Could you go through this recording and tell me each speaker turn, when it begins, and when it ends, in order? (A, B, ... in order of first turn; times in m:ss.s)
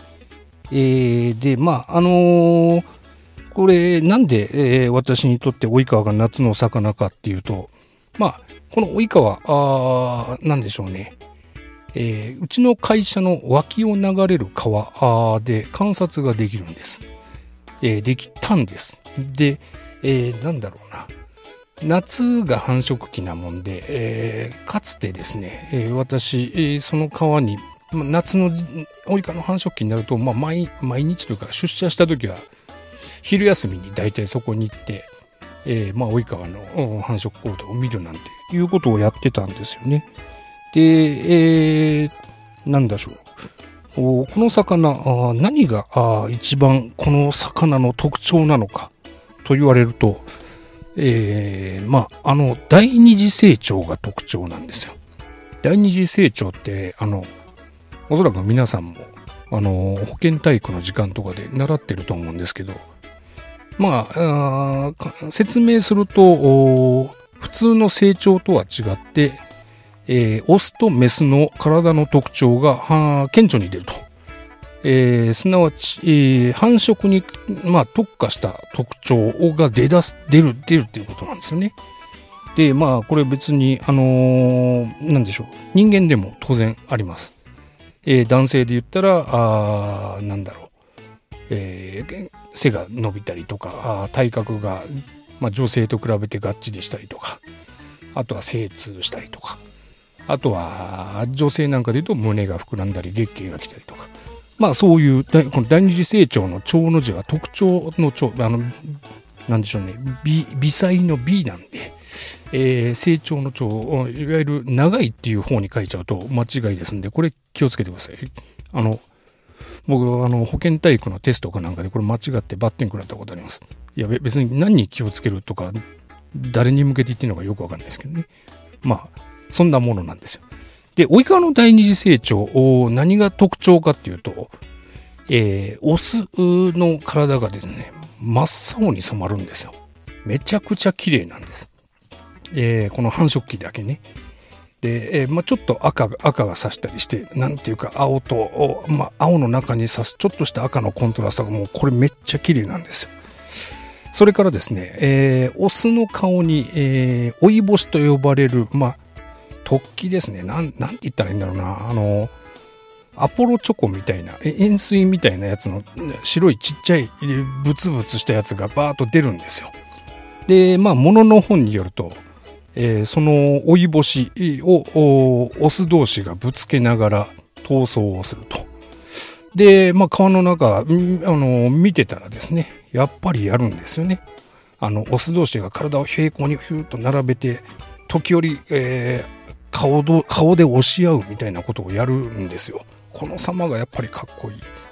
0:00.7-0:02.9 A
0:03.5-0:11.2 A
0:11.9-0:17.0 A
0:17.8-0:21.1 A
0:21.8-0:32.5 A
0:33.2-0:35.1 A
0:35.6-0:40.1 A
0:40.7-0:43.3 A
0:44.0-0:48.9 A
0:49.4-0:50.3 A
0:51.0-0:55.0 A
0:55.6-0:57.3 A
0:58.1-1:02.9 A
1:03.8-1:09.4 A
1:10.1-1:14.0 A
1:14.8-1:21.8 A
1:22.6-1:27.4 A
1:28.0-1:30.7 A
1:31.5-1:37.4 A
1:38.1-1:39.6 A
1:40.3-1:52.0 A
1:52.5-1:59.0 A
1:59.9-2:05.8 A
2:06.3-2:08.3 A
2:08.8-2:10.4 A
2:11.0-2:14.6 A
2:15.3-2:21.7 A
2:22.5-2:24.0 A
2:24.8-2:33.2 A
2:34.1-2:39.0 A
2:39.6-2:42.4 A
2:43.2-2:49.8 A
2:50.5-2:58.7 A
2:59.5-3:04.2 A
3:04.8-3:14.7 A